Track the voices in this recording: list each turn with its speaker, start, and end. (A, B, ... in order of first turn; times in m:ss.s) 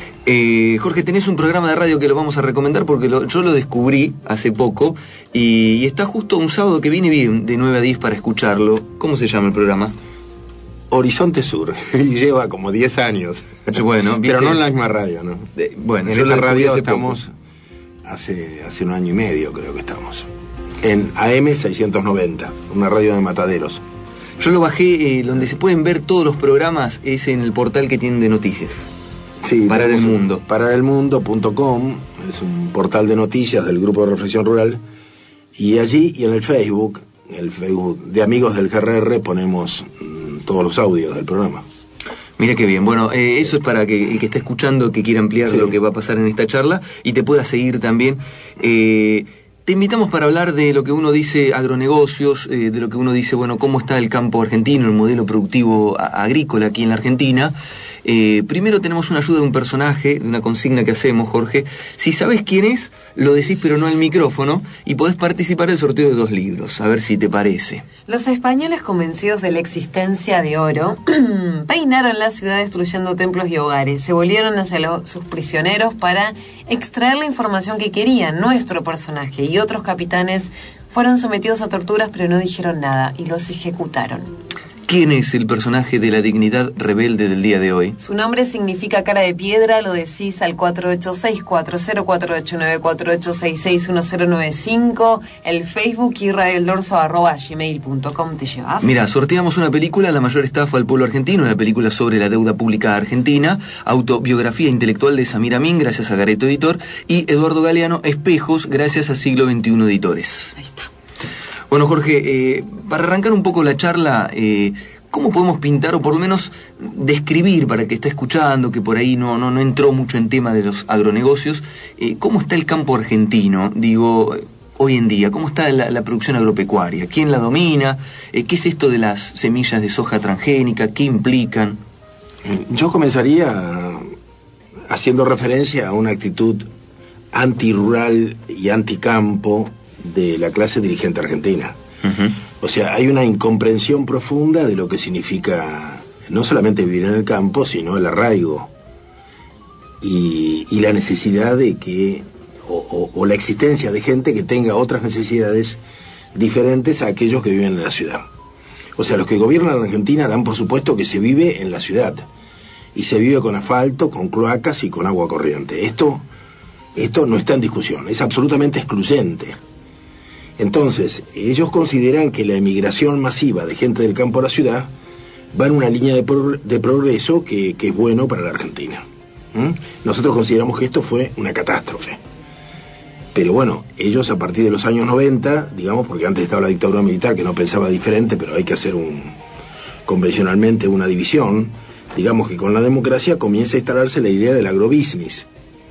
0:00.3-0:10.0 A
0:10.9-0:15.5 B
0:13.7-0:14.6 A
0:15.6-0:17.2 A
0:16.0-0:17.3 B
0:18.0-0:23.8 B
0:24.4-0:28.9 A
0:29.4-0:34.8 B
0:29.7-0:30.4 A
0:35.6-0:41.6 B
0:42.4-1:07.9 A
0:45.5-0:45.8 B
1:08.1-1:24.2 C
1:24.9-1:28.0 A
1:28.0-1:38.9 C
1:38.8-1:50.6 A
1:51.7-2:11.8 A
2:12.4-2:14.1 B
2:14.9-2:16.7 B
2:17.3-2:21.8 B
2:22.0-2:22.4 A
2:22.6-2:28.7 B
2:30.0-2:35.8 B
2:36.4-2:38.3 B
2:39.0-2:42.3 B
2:42.9-2:46.2 B
2:47.0-2:49.6 B
2:50.6-2:54.9 B
2:55.5-3:02.2 B
3:03.3-3:09.4 B
3:10.1-3:15.5 B